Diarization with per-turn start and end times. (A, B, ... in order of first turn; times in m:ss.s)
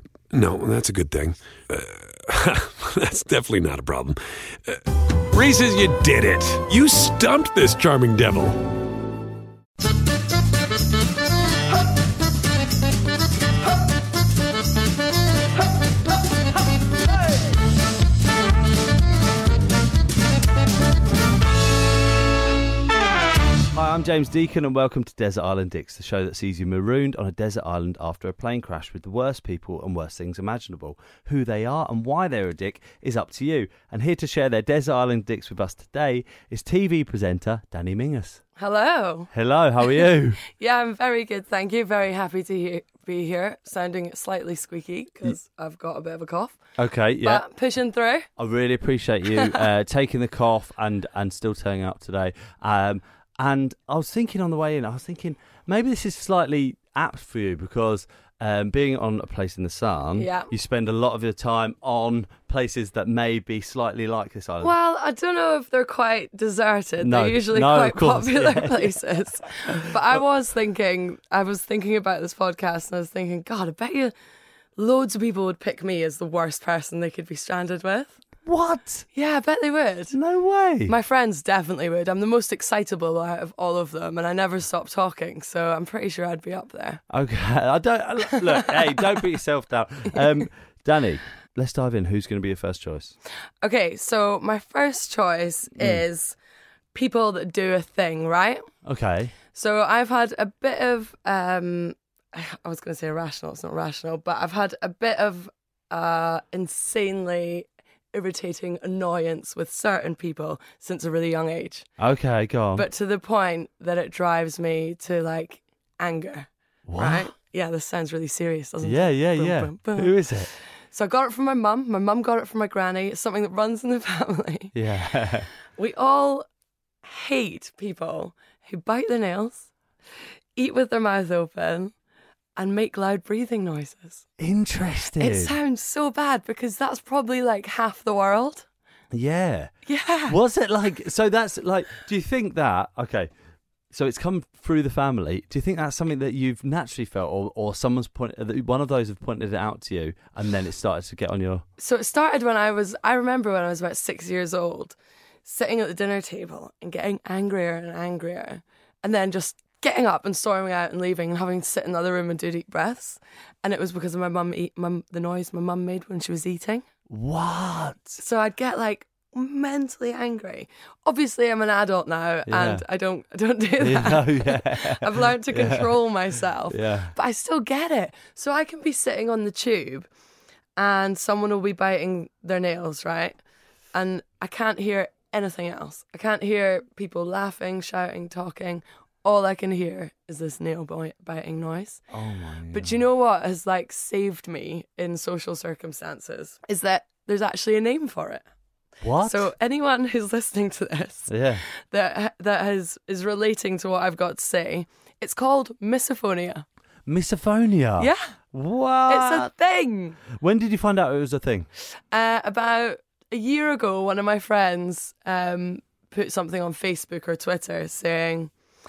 0:00.3-0:08.6 A
0:23.7-0:38.4 B
0:38.6-0:39.3 C
0:39.3-0:40.4 B
0:39.9-0:46.6 C
0:46.8-0:47.4 B
0:47.2-0:48.3 C
0:48.4-1:04.7 B
0:49.4-0:49.6 C
1:00.2-1:00.5 C
1:04.6-1:14.1 C
1:07.0-1:09.0 B
1:09.7-1:10.2 B
1:14.8-1:18.2 C
1:18.4-1:19.1 B
1:19.1-1:20.2 C
1:20.1-1:20.9 B
1:20.9-1:27.0 C
1:27.1-1:33.2 B
1:28.6-1:29.0 C
1:33.6-1:36.4 C
1:35.8-1:36.0 B
1:36.9-1:38.7 C
1:38.8-1:39.3 B
1:39.5-1:51.9 C
1:52.0-1:52.9 B
1:52.8-2:04.8 C
1:56.9-1:57.3 B
1:58.8-2:00.5 B
2:04.7-2:05.5 B
2:05.7-2:06.5 C
2:07.0-2:09.7 C
2:10.6-2:11.9 C
2:12.6-2:14.3 C
2:14.4-2:15.6 B
2:15.2-2:18.7 C
2:19.1-2:19.8 B
2:19.9-2:20.4 C
2:20.3-2:23.3 B
2:23.9-2:31.7 B
2:31.8-2:46.9 C
2:47.1-2:48.2 B
2:48.2-3:00.1 C
2:52.5-2:52.8 B
2:53.8-2:56.0 B
2:56.7-2:57.1 B
3:00.8-3:03.4 C
3:03.9-3:12.0 C
3:12.1-3:13.0 B
3:12.7-3:18.4 C
3:19.0-3:19.5 B
3:19.2-3:26.6 C
3:21.3-3:21.6 B
3:27.1-3:29.5 B
3:28.0-3:28.3 C
3:29.1-3:30.2 C
3:30.3-3:31.7 B
3:32.1-3:38.5 C